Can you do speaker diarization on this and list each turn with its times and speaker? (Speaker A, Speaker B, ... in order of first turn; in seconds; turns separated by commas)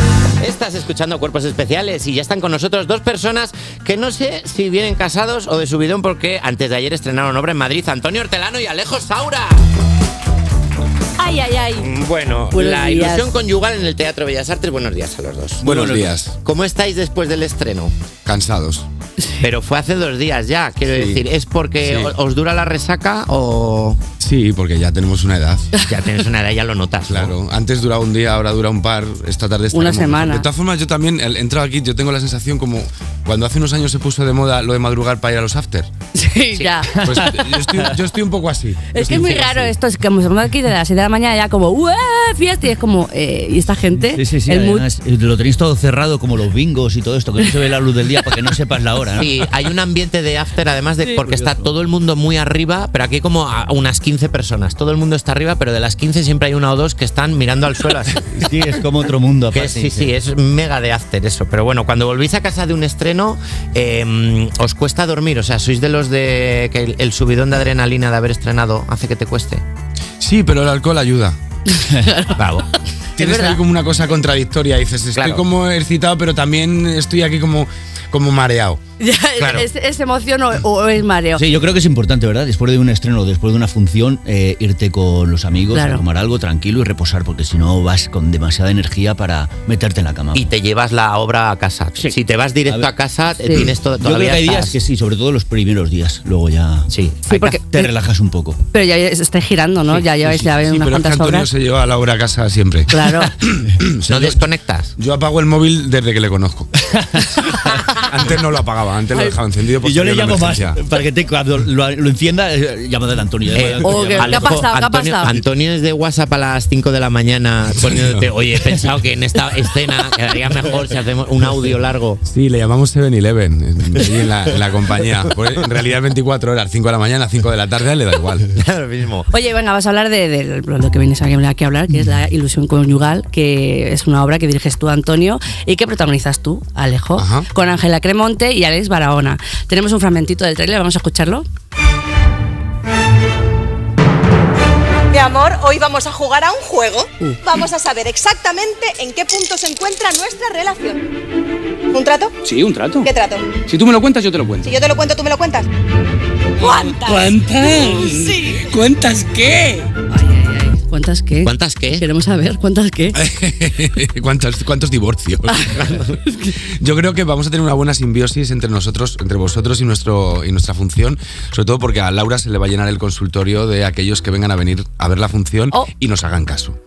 Speaker A: 0.4-9.6, Speaker B: 11.2-11.9, Speaker A: 11.8-15.6, Speaker B: 12.5-13.3, Speaker C: 15.6-16.1, Speaker D: 15.6-16.3, Speaker A: 16.4-17.9, Speaker D: 18.2-18.9, Speaker A: 19.4-24.0, Speaker D: 20.9-21.2, Speaker D: 21.8-22.1, Speaker D: 24.2-25.7, Speaker A: 25.9-27.3, Speaker D: 27.1-35.9, Speaker B: 29.7-30.5, Speaker B: 36.1-37.4, Speaker D: 37.0-39.7, Speaker B: 38.9-44.9, Speaker C: 44.0-49.3, Speaker A: 49.2-58.3, Speaker C: 51.1-51.7, Speaker C: 58.3-60.1, Speaker A: 59.5-69.6, Speaker D: 70.2-71.4, Speaker B: 71.8-72.4, Speaker A: 72.4-72.7, Speaker B: 73.2-73.6, Speaker D: 73.2-78.8, Speaker A: 75.1-75.4, Speaker B: 79.0-81.4, Speaker A: 79.4-79.7, Speaker C: 81.4-90.5, Speaker B: 85.7-86.0, Speaker A: 90.3-94.8, Speaker C: 92.0-92.9, Speaker B: 93.4-93.7, Speaker C: 93.5-98.6, Speaker A: 96.9-97.2, Speaker B: 97.2-97.9, Speaker B: 98.7-101.5, Speaker D: 100.0-104.4, Speaker B: 102.9-103.3, Speaker A: 104.1-104.9, Speaker D: 105.0-106.7, Speaker C: 106.8-108.0, Speaker D: 108.0-110.8, Speaker C: 109.8-114.5, Speaker A: 113.5-122.2, Speaker B: 113.8-115.4, Speaker D: 117.8-118.3, Speaker D: 122.3-128.5, Speaker A: 128.5-129.3, Speaker B: 129.3-141.4, Speaker D: 137.2-137.5, Speaker E: 145.1-151.0, Speaker E: 151.9-152.3, Speaker F: 152.4-153.1, Speaker E: 153.0-153.5, Speaker D: 153.7-154.0, Speaker F: 153.8-154.6, Speaker E: 154.6-155.7, Speaker E: 156.6-158.8, Speaker F: 157.6-158.2, Speaker D: 158.6-159.6, Speaker F: 158.8-159.8, Speaker B: 160.1-163.2, Speaker A: 161.4-162.1, Speaker D: 163.1-165.8, Speaker B: 165.5-166.5, Speaker D: 166.8-176.8